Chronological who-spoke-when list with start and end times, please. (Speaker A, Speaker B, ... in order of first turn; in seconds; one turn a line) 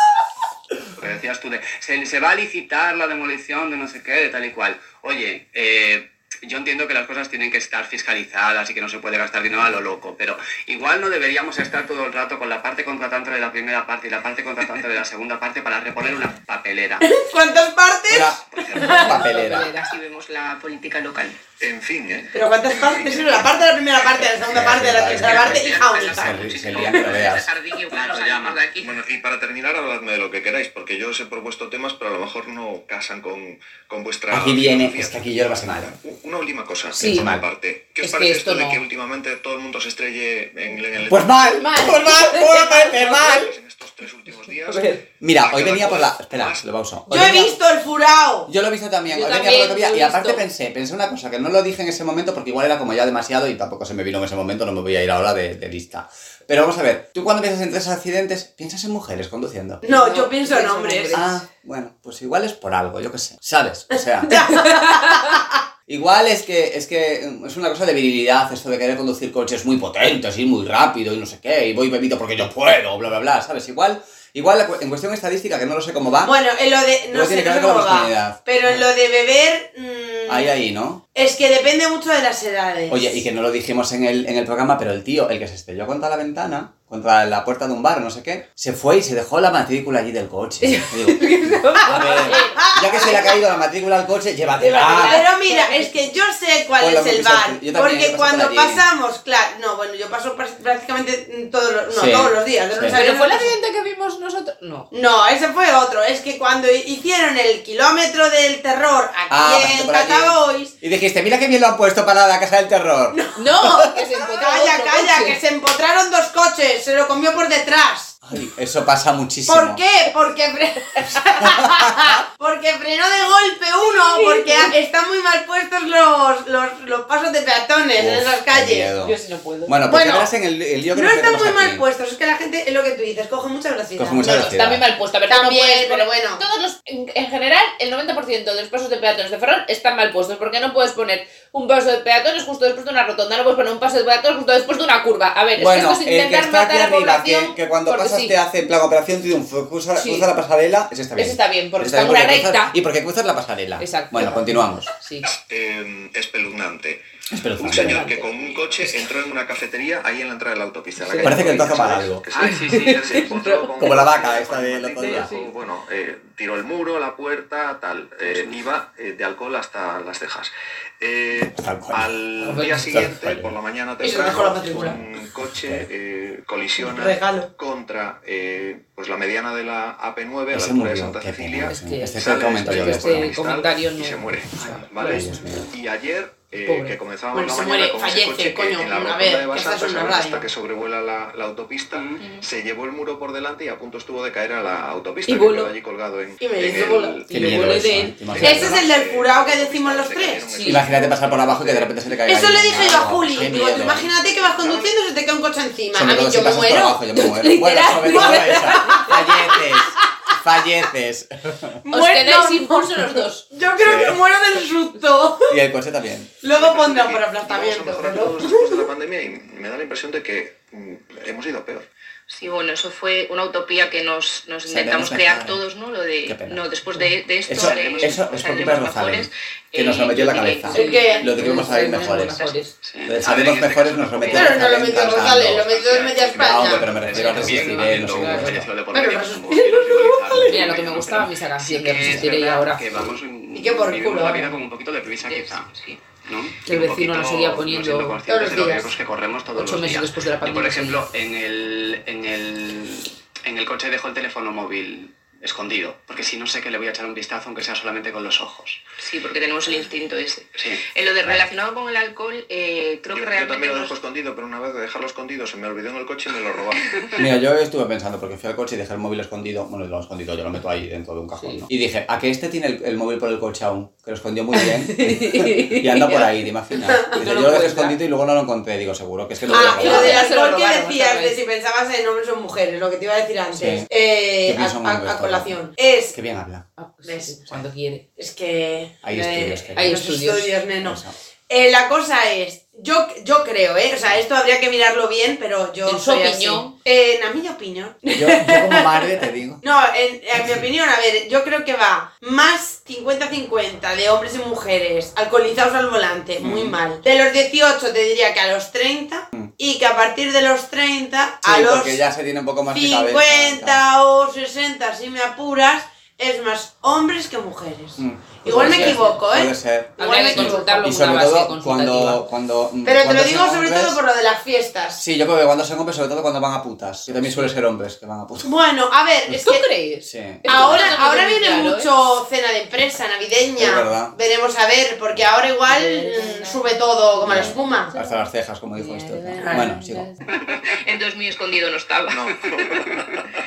Speaker A: 1.0-17.1
Speaker B: 17.0-19.3
Speaker C: 18.1-19.7
Speaker D: 18.8-19.9
Speaker E: 19.5-21.4
Speaker F: 21.6-23.5
Speaker B: 22.3-26.4
Speaker C: 24.4-27.5
Speaker E: 25.1-29.0
Speaker A: 26.6-28.7
Speaker F: 28.8-41.5
Speaker C: 34.3-36.0
Speaker D: 37.0-37.3
Speaker C: 37.0-37.5
Speaker D: 38.0-38.8
Speaker C: 41.1-43.6
Speaker D: 41.8-42.6
Speaker F: 42.7-46.6
Speaker D: 44.7-45.0
Speaker C: 45.2-47.6
Speaker B: 47.1-48.5
Speaker C: 48.5-59.8
Speaker D: 49.1-50.4
Speaker B: 59.8-61.2
Speaker D: 59.9-61.4
Speaker C: 61.1-64.6
Speaker B: 64.3-65.5
Speaker D: 64.5-65.3
Speaker C: 65.9-76.3
Speaker B: 76.2-80.5
Speaker C: 77.1-78.9
Speaker C: 80.3-81.0
Speaker B: 81.2-83.2
Speaker C: 82.9-95.2
Speaker D: 90.6-92.7
Speaker B: 91.9-93.4
Speaker D: 94.6-96.0
Speaker B: 94.8-103.5
Speaker C: 96.8-98.9
Speaker C: 101.9-103.0
Speaker D: 102.9-104.9
Speaker B: 104.9-110.7
Speaker C: 109.3-113.2
Speaker B: 113.1-118.2
Speaker D: 113.3-115.4
Speaker C: 118.3-119.8
Speaker B: 119.5-128.9
Speaker C: 121.0-122.2
Speaker D: 123.8-124.7
Speaker C: 128.0-131.8
Speaker D: 129.0-129.8
Speaker B: 129.9-130.3
Speaker B: 130.9-134.5
Speaker C: 134.0-134.8
Speaker D: 134.2-148.4
Speaker B: 135.3-136.4
Speaker C: 145.6-154.9
Speaker D: 150.0-150.3
Speaker D: 151.2-152.7
Speaker D: 153.8-155.3
Speaker F: 155.5-157.0
Speaker C: 157.3-158.1
Speaker F: 157.6-201.9
Speaker D: 157.7-158.3
Speaker A: 158.5-158.8
Speaker D: 161.0-161.6
Speaker C: 161.2-162.3
Speaker A: 162.3-163.6
Speaker D: 162.4-163.9
Speaker C: 163.8-165.4
Speaker D: 165.0-165.5
Speaker A: 168.2-168.6
Speaker C: 171.6-172.1
Speaker D: 172.4-172.9
Speaker C: 172.9-173.5
Speaker B: 174.0-175.0
Speaker B: 176.8-177.5
Speaker C: 180.5-183.4
Speaker D: 181.7-185.4
Speaker C: 185.0-185.7
Speaker D: 186.6-187.0
Speaker B: 187.3-190.5
Speaker A: 191.9-192.2
Speaker E: 192.2-192.4
Speaker D: 195.3-195.7
Speaker B: 196.4-197.2
Speaker D: 197.2-198.6
Speaker C: 197.3-198.9
Speaker B: 198.4-200.5
Speaker D: 200.5-200.8
Speaker C: 200.6-204.1
Speaker B: 202.3-207.0
Speaker F: 204.6-204.9
Speaker C: 205.9-211.8
Speaker D: 207.1-209.4
Speaker B: 208.1-209.6
Speaker B: 211.8-215.6
Speaker D: 211.9-213.5
Speaker C: 213.8-214.2
Speaker C: 215.5-216.3
Speaker B: 216.4-218.9
Speaker F: 216.5-221.9
Speaker E: 222.3-231.3
Speaker C: 224.7-225.6
Speaker C: 226.3-226.6
Speaker C: 227.5-232.5
Speaker A: 227.6-228.2
Speaker D: 230.7-232.7
Speaker B: 230.7-232.1
Speaker E: 232.2-232.6
Speaker A: 232.8-258.8
Speaker C: 233.1-238.7
Speaker B: 234.3-237.0
Speaker D: 236.9-238.6
Speaker B: 238.9-240.7
Speaker D: 240.3-242.9
Speaker B: 243.5-244.6
Speaker E: 245.2-246.0
Speaker D: 246.7-248.2
Speaker B: 248.3-248.9
Speaker D: 249.5-251.0
Speaker E: 259.0-263.9
Speaker A: 260.6-260.8
Speaker F: 263.1-267.0
Speaker C: 267.2-280.3
Speaker D: 271.4-271.7
Speaker D: 274.5-276.4
Speaker D: 277.1-278.0
Speaker D: 279.5-281.4
Speaker B: 279.5-286.2
Speaker C: 283.5-283.9
Speaker C: 284.4-285.6
Speaker C: 286.1-286.6
Speaker D: 286.8-288.0
Speaker B: 287.1-287.4
Speaker B: 288.2-299.1
Speaker C: 289.0-290.0
Speaker D: 289.8-290.6
Speaker C: 290.8-291.1
Speaker D: 295.9-296.7
Speaker C: 298.1-299.6
Speaker B: 299.6-312.0
Speaker C: 300.4-300.6
Speaker C: 306.4-306.8
Speaker C: 311.4-313.8
Speaker B: 312.7-320.9
Speaker C: 318.0-324.0
Speaker D: 318.5-319.2
Speaker D: 320.0-322.2
Speaker B: 322.9-325.0
Speaker C: 325.0-328.5
Speaker D: 327.2-327.5
Speaker B: 328.4-329.7
Speaker D: 329.3-331.9
Speaker C: 330.0-330.9
Speaker B: 330.5-337.9
Speaker C: 333.6-334.1
Speaker D: 335.7-338.1
Speaker C: 337.2-340.1
Speaker D: 338.8-340.2
Speaker B: 339.4-339.6
Speaker E: 340.5-342.9
Speaker F: 342.1-343.2